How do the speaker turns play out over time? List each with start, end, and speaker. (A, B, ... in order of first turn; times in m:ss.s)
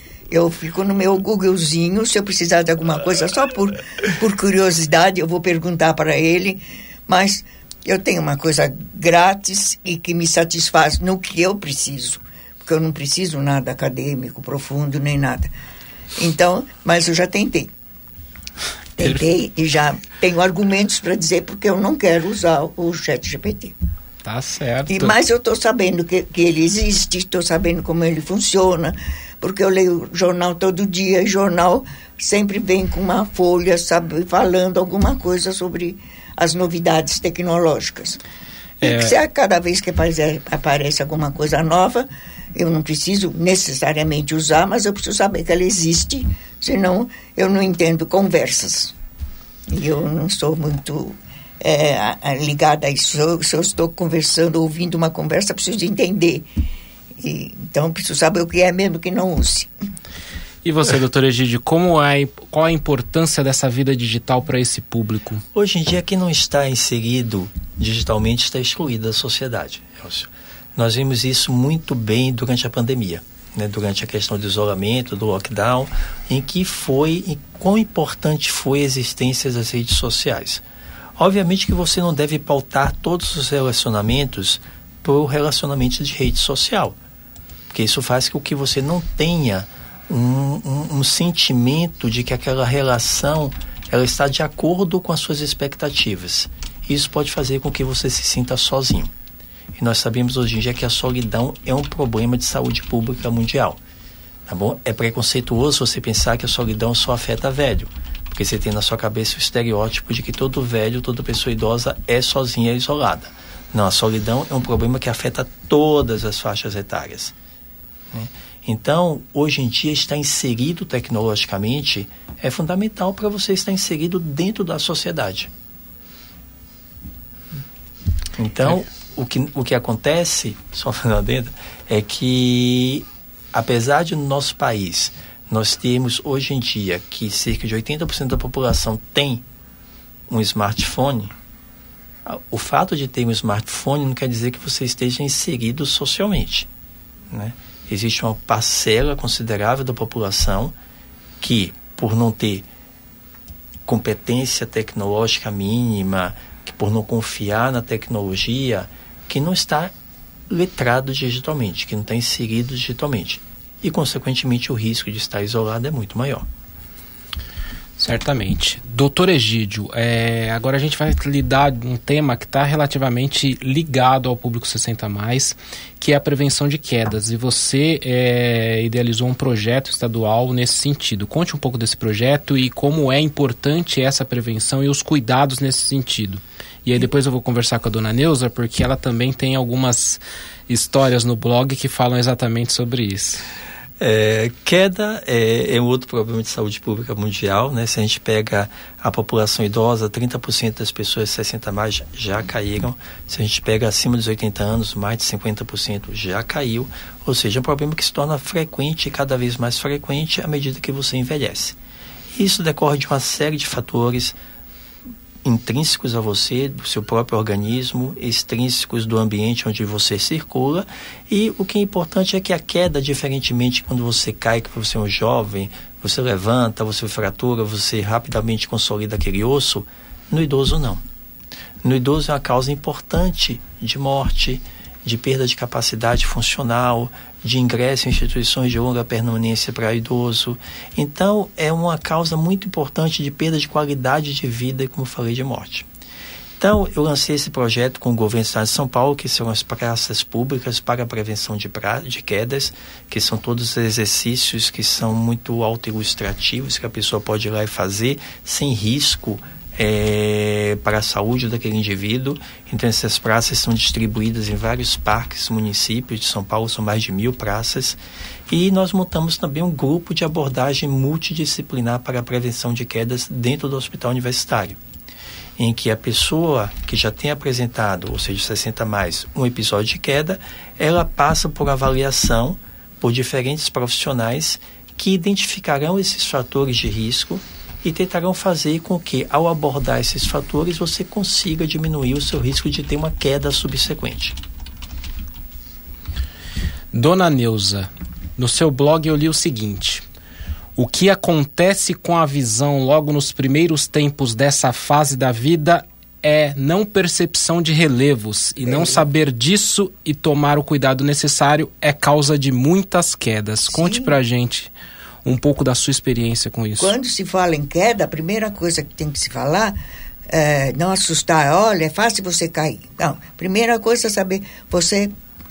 0:00.3-0:15.5 A
0:16.2-0:17.7 A
0:19.0-0:23.7 A
0:24.2-0:25.1 B
0:24.9-0:38.2 A
0:38.8-0:39.2 B
0:38.8-0:48.9 A
0:49.7-0:56.4 A
0:57.2-0:59.7 A
1:00.6-1:05.4 B
1:05.5-1:20.6 C
1:21.2-1:27.0 C
1:27.7-1:39.1 C
1:39.7-1:43.8 C
1:44.4-1:57.3 C
1:58.1-2:05.5 C
2:08.4-2:19.4 C
2:20.3-2:21.3 C
2:22.2-2:26.7 C
2:27.3-2:30.7 C
2:31.4-2:32.7 C
2:33.8-2:39.9 C
2:40.5-2:46.5 C
2:48.0-3:13.4 B
3:14.0-3:31.8 C
3:32.3-3:34.4 C
3:35.4-3:51.0 C
3:51.8-4:05.9 C
4:06.6-4:34.8 C
4:35.6-4:54.4 C
4:56.9-5:00.0 B
5:00.8-5:14.7 B
5:08.6-5:09.0 A
5:13.7-5:14.1 A
5:15.2-5:16.9 B
5:16.8-5:19.8 A
5:20.3-5:25.1 A